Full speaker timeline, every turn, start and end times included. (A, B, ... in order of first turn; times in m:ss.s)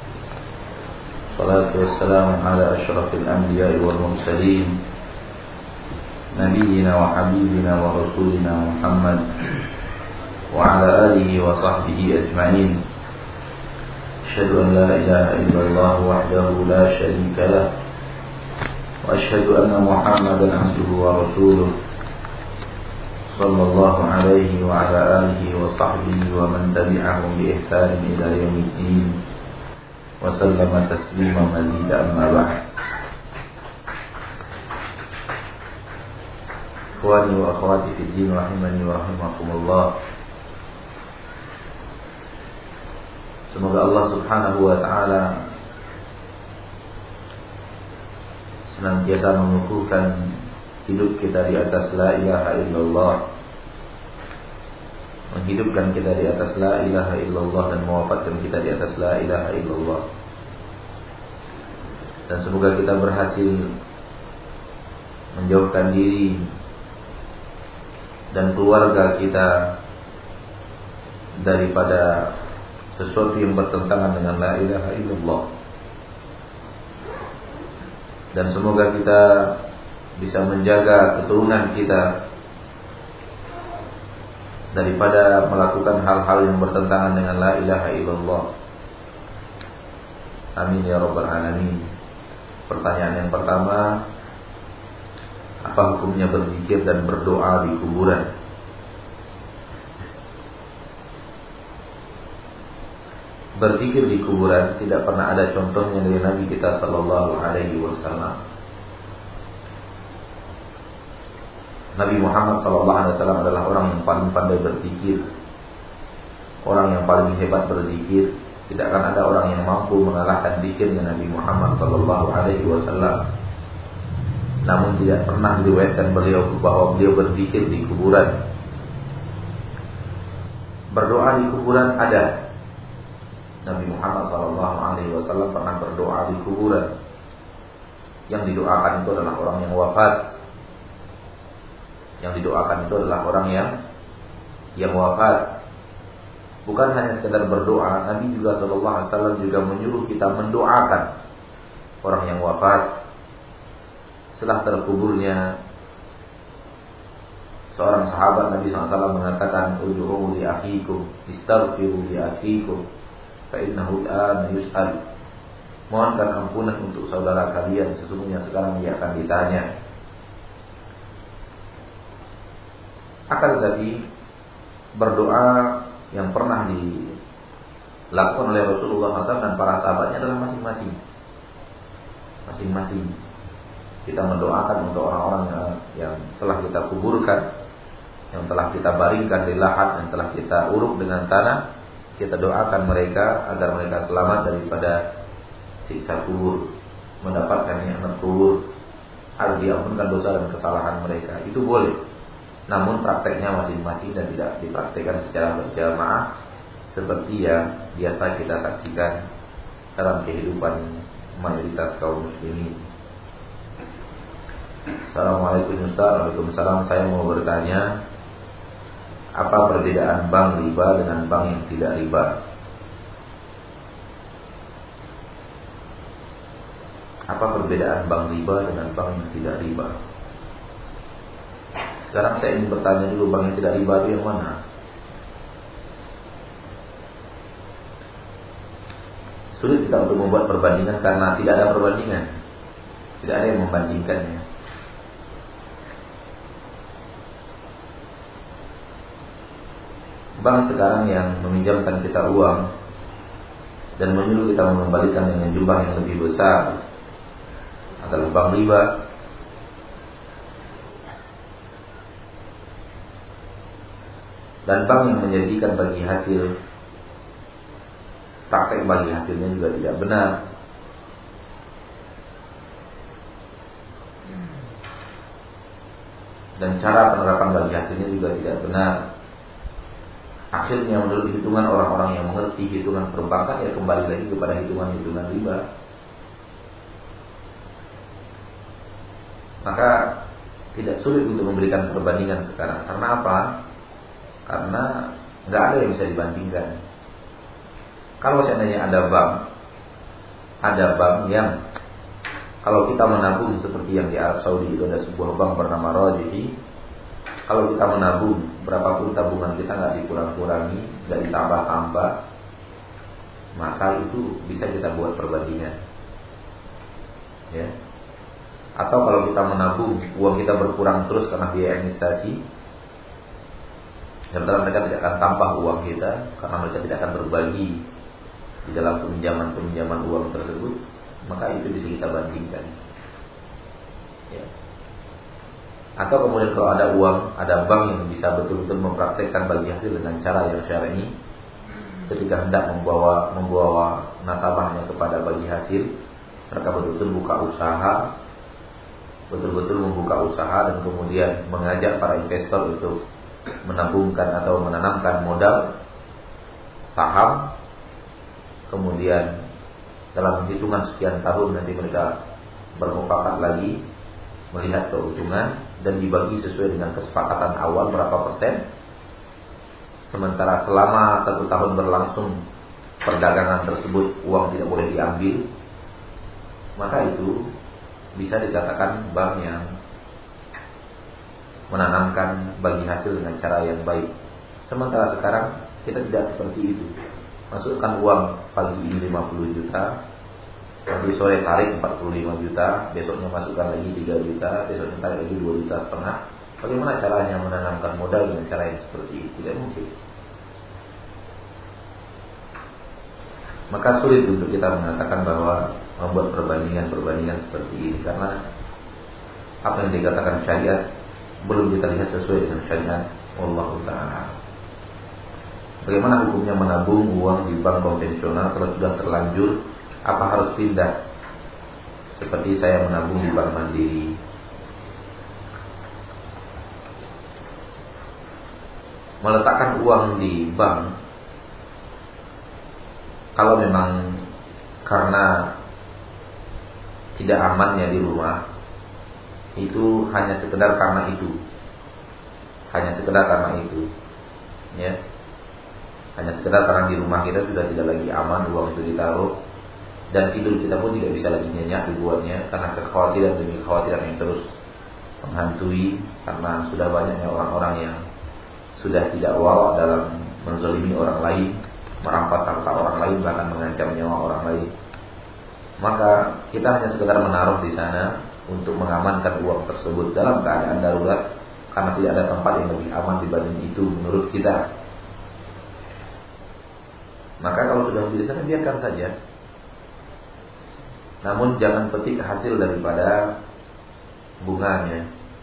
0:01.3-0:04.8 A
0:06.3-0:09.3 A
0:10.5-0:12.8 A
0:14.3-0:17.7 A
0:19.0-0:21.8 A
0:23.3-0:29.2 A
0:30.2-0:32.6 A
0:37.0-0:39.9 A
0:43.5-0:45.5 A
0:48.7-0:53.2 A
0:55.3-1:00.0 A
1:02.3-1:03.8 A
1:05.3-1:06.5 A
1:08.3-1:09.8 A
1:11.4-1:12.4 A
1:13.0-1:15.5 A
1:18.3-1:19.6 A
1:20.2-1:22.2 A
1:24.7-1:28.5 A
1:30.6-1:31.9 A
1:32.7-1:34.1 A
1:35.7-1:38.3 A
1:43.6-1:48.4 A
1:52.0-1:55.3 A
1:56.6-2:03.3 A
2:04.6-2:08.4 A
2:10.9-2:12.4 A
2:13.6-2:16.9 A
2:18.3-2:20.3 A
2:22.2-2:23.8 A
2:24.8-2:25.6 A
2:26.7-2:31.1 A
2:32.0-2:33.0 A
2:34.3-2:35.6 A
2:37.7-2:42.8 A
2:43.5-2:45.0 A
2:45.9-2:49.7 A
2:53.3-2:54.1 A
2:55.0-2:57.2 A
2:58.1-3:01.0 A
3:02.5-3:03.2 A
3:04.1-3:07.5 A
3:08.3-3:15.1 A
3:15.8-3:18.7 A
3:19.4-3:22.0 A
3:22.7-3:26.3 A
3:26.9-3:29.2 A
3:30.0-3:32.8 A
3:35.1-3:38.0 A
3:39.4-3:42.4 A
3:47.3-3:50.0 A
3:52.1-3:54.6 A
3:59.5-4:02.3 A
4:03.2-4:04.5 A
4:10.4-4:12.7 A
4:14.0-4:16.8 A
4:18.0-4:19.0 A
4:24.7-4:26.5 A
4:28.5-4:30.4 A
4:36.6-4:39.1 A
4:40.5-4:45.7 A
4:49.6-4:53.7 A
4:54.5-4:56.8 A
4:58.2-4:59.5 A
5:00.6-5:01.6 A
5:02.6-5:06.6 A
5:07.5-5:12.2 A
5:13.6-5:15.8 A
5:18.8-5:22.4 A
5:24.3-5:27.9 A
5:28.6-5:32.7 A
5:36.0-5:41.2 A
5:42.1-5:45.9 A
5:46.5-5:48.1 A
5:49.3-5:53.0 A
5:53.6-5:55.8 A
5:56.9-5:57.6 A
5:58.7-5:59.4 A
6:00.2-6:02.2 A
6:02.8-6:03.8 A
6:04.5-6:08.7 A
6:10.1-6:12.4 A
6:13.0-6:15.5 A
6:16.8-6:17.5 A
6:18.2-6:19.7 A
6:21.7-6:24.1 A
6:24.7-6:26.9 A
6:27.5-6:30.0 A
6:30.9-6:39.9 A
6:43.7-6:48.4 A
6:49.6-6:50.9 A
6:51.4-6:54.4 A
6:55.8-7:01.0 A
7:02.2-7:04.2 A
7:09.2-7:11.0 A
7:13.4-7:14.3 A
7:14.9-7:15.6 A
7:17.2-7:18.5 A
7:19.6-7:21.4 A
7:22.7-7:23.9 A
7:24.7-7:25.0 A
7:26.2-7:29.4 A
7:30.1-7:34.5 A
7:35.2-7:38.0 A
7:38.8-7:44.7 A
7:45.8-7:54.7 A
7:57.4-7:59.2 A
8:01.2-8:03.4 A
8:04.4-8:05.1 A